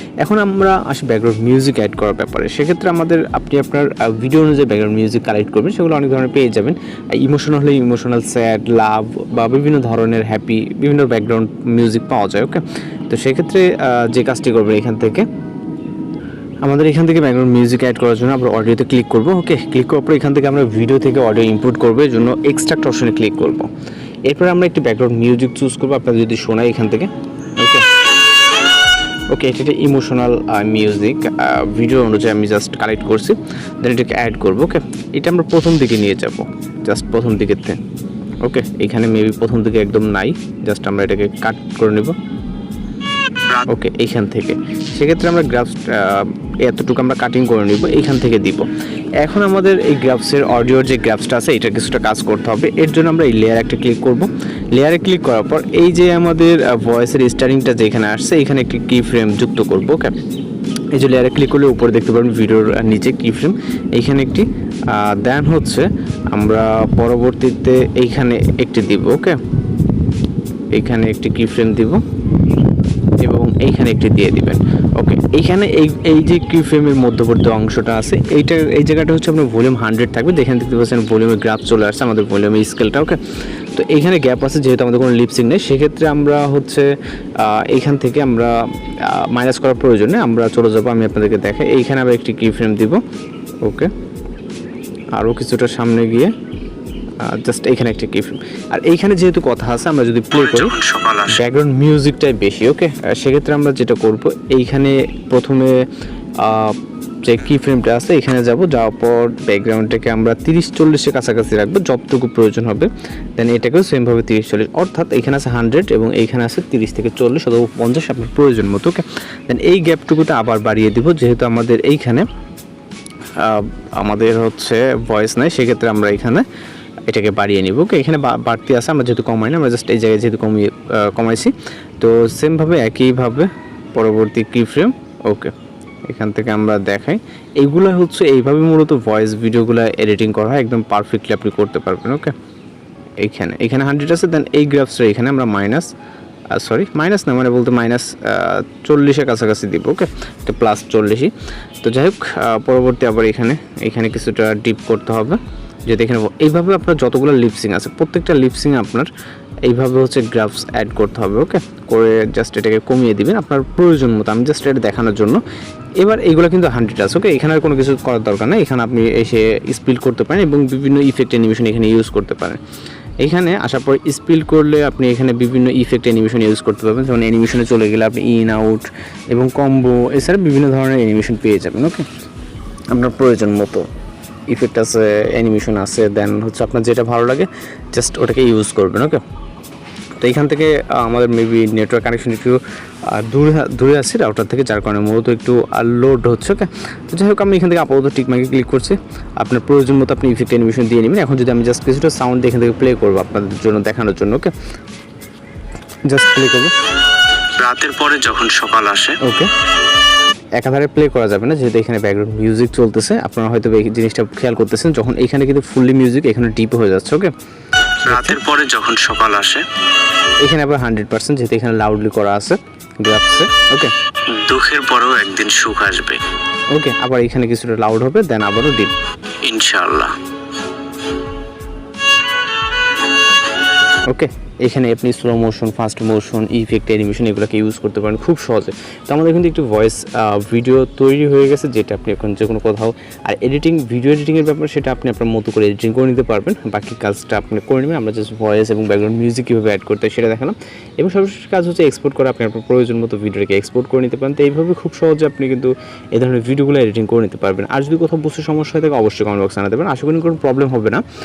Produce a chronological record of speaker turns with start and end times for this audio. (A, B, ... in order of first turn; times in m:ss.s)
0:00.2-0:15.2 A
0:16.6-0:23.7 A
0:24.3-0:27.8 A
0:29.3-0:37.8 A
0:38.4-0:42.1 A
0:43.7-0:48.7 A
0:49.2-1:00.2 A
1:00.9-1:09.4 A
1:10.7-1:12.0 A
1:13.2-1:23.2 A
1:23.7-1:26.9 A
1:27.4-1:28.5 A
1:29.1-1:33.0 A
1:33.6-1:33.9 A
1:35.2-1:36.3 A
1:37.2-1:40.8 A
1:40.3-1:41.4 B
1:41.3-1:45.7 A
1:46.4-2:02.2 A
2:03.4-2:06.4 A
2:07.1-2:15.5 A
2:16.1-2:22.3 A
2:23.2-2:25.9 A
2:26.5-2:31.3 A
2:31.8-2:39.1 A
2:39.6-2:45.4 A
2:46.0-2:52.6 A
2:53.2-3:02.1 A
3:02.9-3:03.9 A
3:04.5-3:09.2 A
3:10.2-3:24.5 A
3:26.1-3:26.7 A
3:27.6-3:29.2 B
3:29.2-3:29.5 A
3:30.6-3:37.3 A
3:38.1-3:38.4 A
3:38.1-3:39.6 B
3:40.4-3:43.9 A
3:44.3-3:46.2 B
3:46.7-3:48.9 A
3:49.4-3:50.1 B
3:54.1-4:21.0 A